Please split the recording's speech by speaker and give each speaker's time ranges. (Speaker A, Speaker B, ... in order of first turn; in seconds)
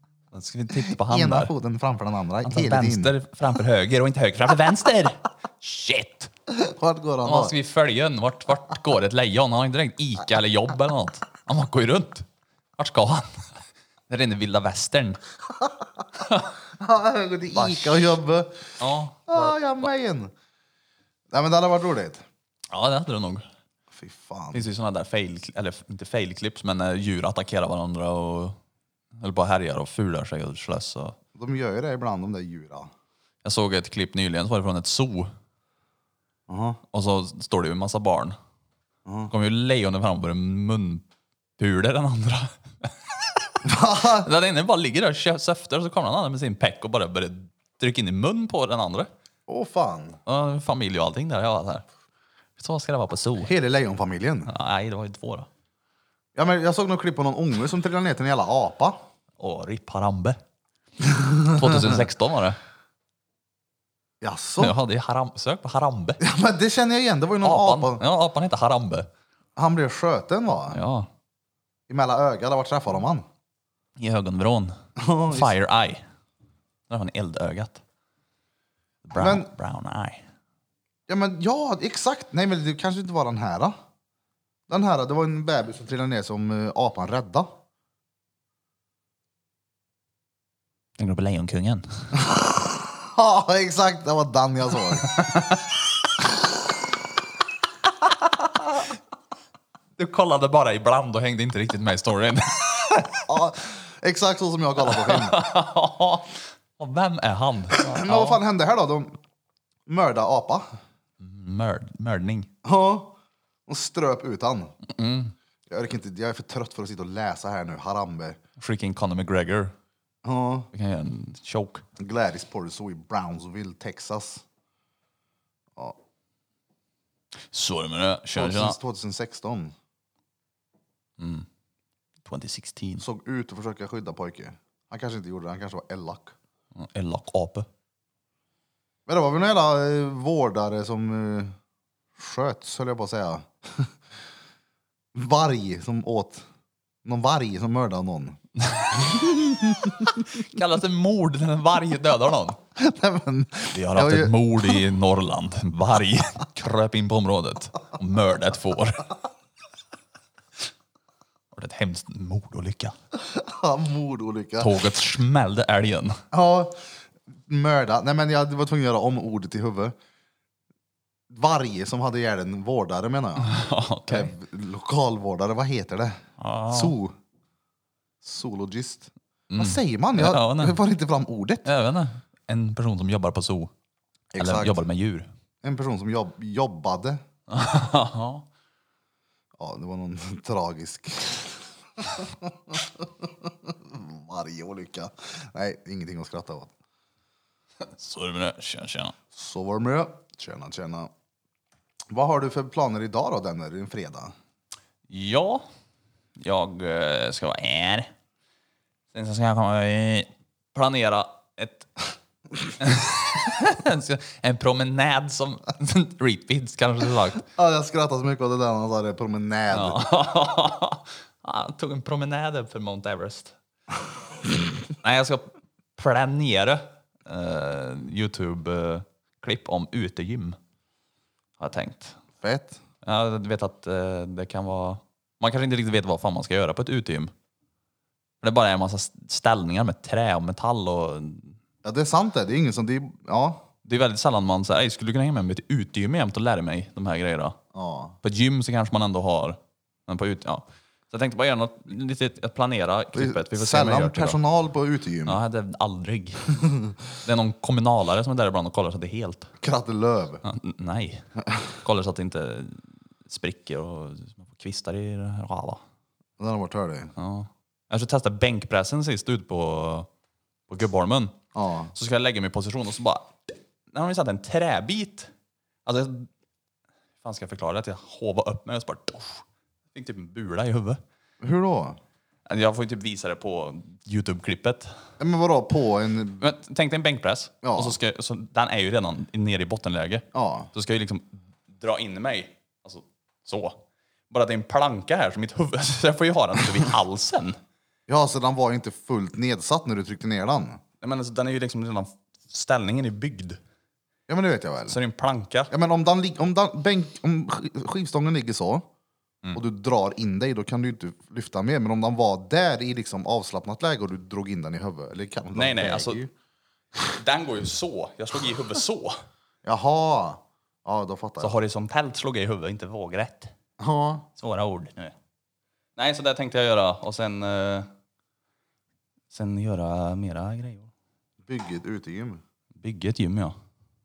Speaker A: 0.3-1.5, 2.5-6.3, 7.2-13.5, 14.1-15.2, 16.2-16.5, 17.5-18.0, 18.8-19.6, 22.7-23.5, 24.5-28.6, 29.2-31.2, 33.4-35.3, 36.9-38.4, 39.3-41.0, 41.6-42.9, 43.9-49.1, 50.3-51.9, 52.6-53.5, 54.5-55.5, 59.4-60.4, 61.5-62.6, 64.6-66.2, 67.4-69.1, 70.7-71.1, 74.0-74.8, 75.3-76.0, 76.9-77.8, 79.0-80.2, 91.0-92.1, 95.2-95.6, 100.0-103.3, 104.9-108.4, 111.2-112.5, 114.9-115.3, 118.6-119.7, 120.7-121.8, 127.5-128.8, 131.2-131.5, 132.2-133.0, 136.8-137.7, 148.6-149.1, 150.2-152.6, 153.7-159.1, 161.5-162.9, 164.6-166.2, 173.4-174.3, 176.4-177.0, 179.5-180.8, 181.7-183.7, 184.4-185.3, 187.5-188.5, 197.8-199.2, 205.1-205.7, 206.4-208.1, 209.1-211.9, 212.8-217.4, 219.7-223.6, 225.0-230.6, 231.6-232.2, 233.0-237.3, 238.4-241.6, 243.8-247.6, 248.2-254.4, 255.2-256.6, 257.2-259.5, 260.4-261.3, 261.8-265.8, 267.2-270.1, 270.7-271.4, 271.9-275.3, 275.9-276.3, 277.2-281.0, 282.5-284.9, 286.4-297.6, 301.0-303.6, 304.9-305.7, 315.5-316.2, 317.1-319.2, 321.4-323.5, 324.4-325.1, 326.0-327.9, 329.3-330.9, 332.8-333.6
Speaker B: 0.9-3.1, 6.5-7.5, 16.8-20.3, 21.3-22.2, 23.9-24.7, 31.4-32.9, 36.5-36.8, 39.1-39.3, 43.6-44.3, 49.5-50.2, 53.4-54.5, 56.4-59.0, 61.0-62.0, 64.2-64.8, 66.2-68.0, 69.6-70.8, 71.9-73.2, 75.0-75.5, 79.2-79.5, 81.1-83.8, 84.7-87.5, 92.2-95.1, 103.3-105.4, 107.8-109.2, 109.9-110.7, 112.6-113.2, 113.7-114.7, 115.7-118.4, 120.2-120.7, 122.0-124.4, 128.3-129.7, 133.0-136.3, 139.1-141.6, 142.2-143.9, 145.1-146.4, 147.1-148.4, 149.0-150.1, 152.8-154.7, 163.2-164.8, 166.3-169.9, 171.3-173.5, 174.1-176.2, 176.7-177.2, 178.2-181.7, 184.3-184.8, 185.6-187.2, 189.6-196.7, 199.3-201.1, 202.1-204.3, 217.6-220.0, 232.4-232.8, 241.8-243.7, 247.7-248.2, 253.1-255.4, 259.6-260.4, 266.4-267.1, 271.6-271.9, 281.4-282.0, 285.2-286.4, 287.6-288.0, 290.3-290.7, 298.1-300.8, 304.3-305.0, 305.7-308.9, 309.6-316.3, 319.6-321.6, 323.8-324.3, 331.5-332.4